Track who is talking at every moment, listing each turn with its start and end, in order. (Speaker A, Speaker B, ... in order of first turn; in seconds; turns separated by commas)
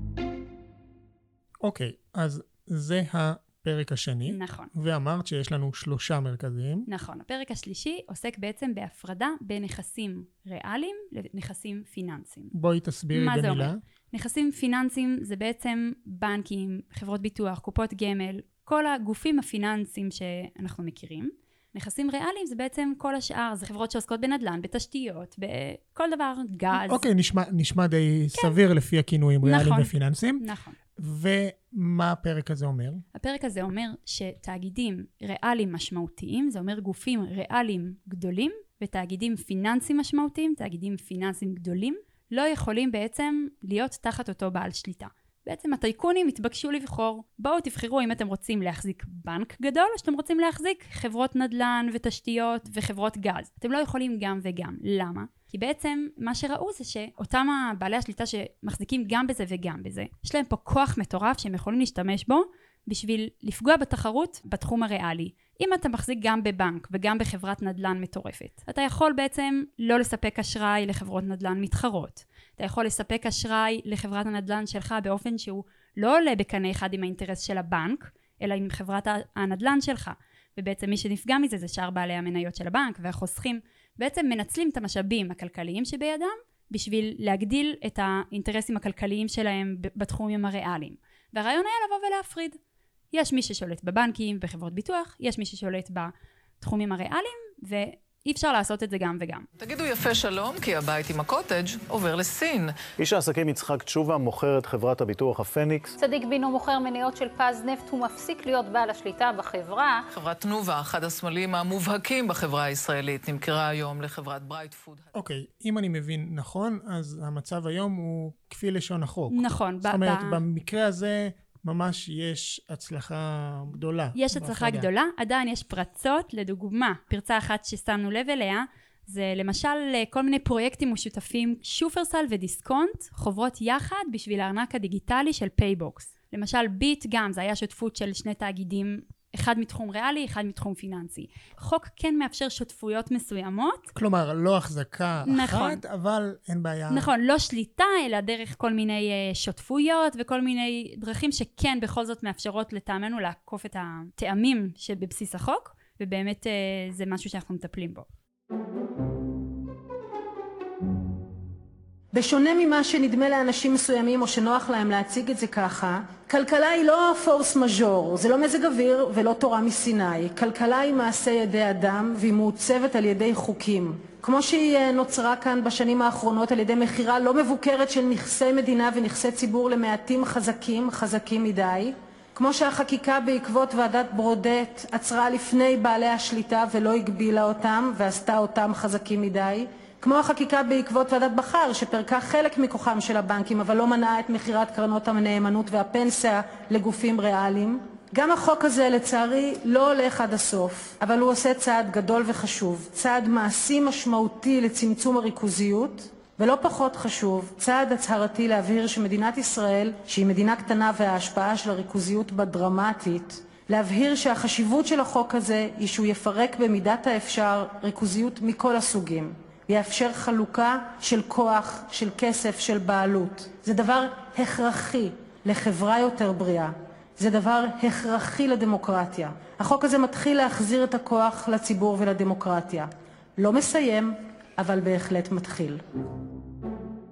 Speaker A: 1.6-6.9, Speaker B: 4.3-4.7, Speaker B: 6.9-12.5, Speaker A: 12.5-13.8, Speaker B: 13.1-27.0, Speaker A: 26.9-30.4, Speaker B: 29.4-30.8, Speaker A: 31.0-33.0, Speaker B: 33.1-92.6, Speaker B: 93.1-99.5, Speaker C: 99.6-102.8, Speaker D: 103.0-106.0, Speaker E: 106.0-110.0, Speaker C: 110.1-115.1, Speaker A: 115.1-124.9, Speaker B: 119.3-120.4, Speaker B: 124.2-143.9, Speaker A: 143.9-147.1, Speaker B: 145.3-145.8, Speaker B: 146.9-158.1, Speaker F: 162.1-235.8